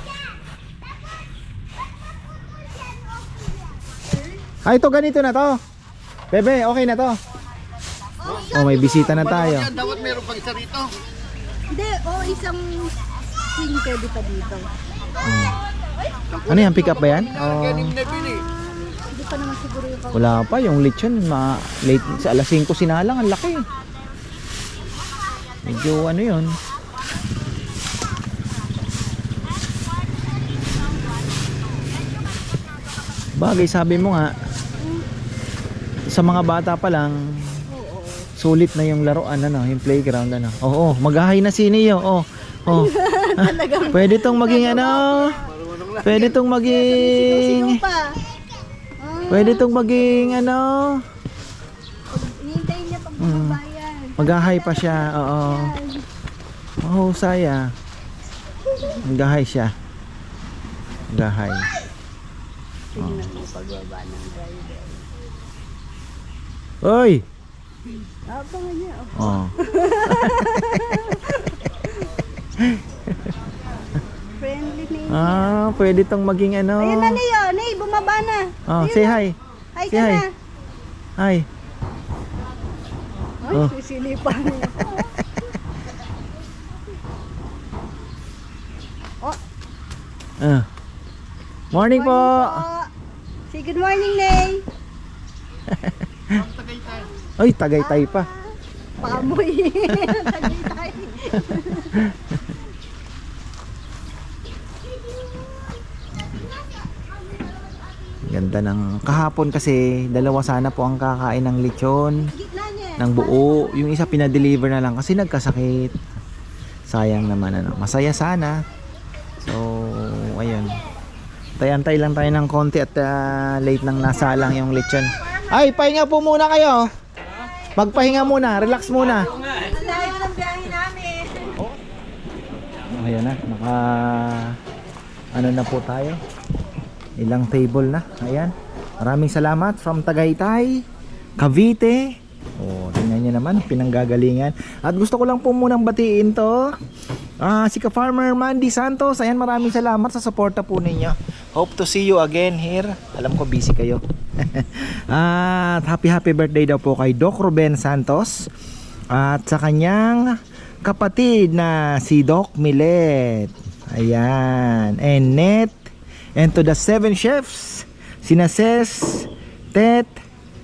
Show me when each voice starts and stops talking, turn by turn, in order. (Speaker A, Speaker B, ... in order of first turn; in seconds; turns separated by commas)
Speaker A: 4.7-5.6, Speaker A: 6.3-7.2, Speaker B: 8.3-10.9, Speaker A: 8.5-9.7, Speaker C: 11.7-14.7, Speaker A: 15.2-15.6, Speaker B: 16.3-18.4, Speaker A: 16.5-17.9, Speaker C: 18.1-20.4, Speaker A: 20.1-23.6, Speaker A: 25.6-26.5, Speaker A: 33.4-34.4, Speaker A: 36.1-37.2, Speaker C: 37.7-38.3, Speaker A: 38.4-42.9, Speaker C: 42.7-45.5, Speaker A: 43.9-45.3, Speaker B: 45.6-46.0, Speaker A: 46.0-47.8, Speaker C: 46.1-48.1, Speaker C: 49.0-50.2, Speaker A: 49.3-51.0, Speaker C: 52.1-56.0, Speaker A: 53.2-53.6, Speaker A: 54.2-55.7, Speaker A: 56.8-57.7, Speaker A: 59.0-59.7, Speaker A: 61.1-61.7, Speaker C: 63.0-65.0, Speaker A: 63.0-63.3, Speaker A: 66.8-67.2, Speaker C: 68.3-72.0, Speaker A: 69.2-69.5, Speaker A: 70.1-70.9, Speaker A: 72.6-73.1, Speaker C: 74.4-75.6, Speaker A: 75.1-77.2, Speaker C: 76.8-79.2, Speaker A: 78.7-79.3, Speaker C: 79.8-80.3, Speaker A: 79.9-80.2, Speaker A: 81.2-81.5, Speaker C: 83.4-85.1, Speaker A: 90.4-90.7, Speaker A: 91.7-92.6, Speaker C: 91.7-92.9, Speaker C: 93.5-94.7, Speaker A: 95.7-96.4, Speaker A: 97.4-98.3, Speaker C: 97.8-102.0, Speaker A: 108.3-112.3, Speaker C: 112.3-113.2, Speaker A: 113.0-116.0, Speaker A: 116.9-118.6, Speaker A: 119.4-120.8, Speaker A: 121.6-126.9, Speaker A: 127.8-129.3, Speaker C: 129.6-131.5, Speaker A: 132.9-134.6, Speaker A: 135.3-136.2, Speaker A: 137.2-140.8, Speaker A: 141.4-146.7, Speaker A: 147.4-158.5, Speaker A: 159.1-170.1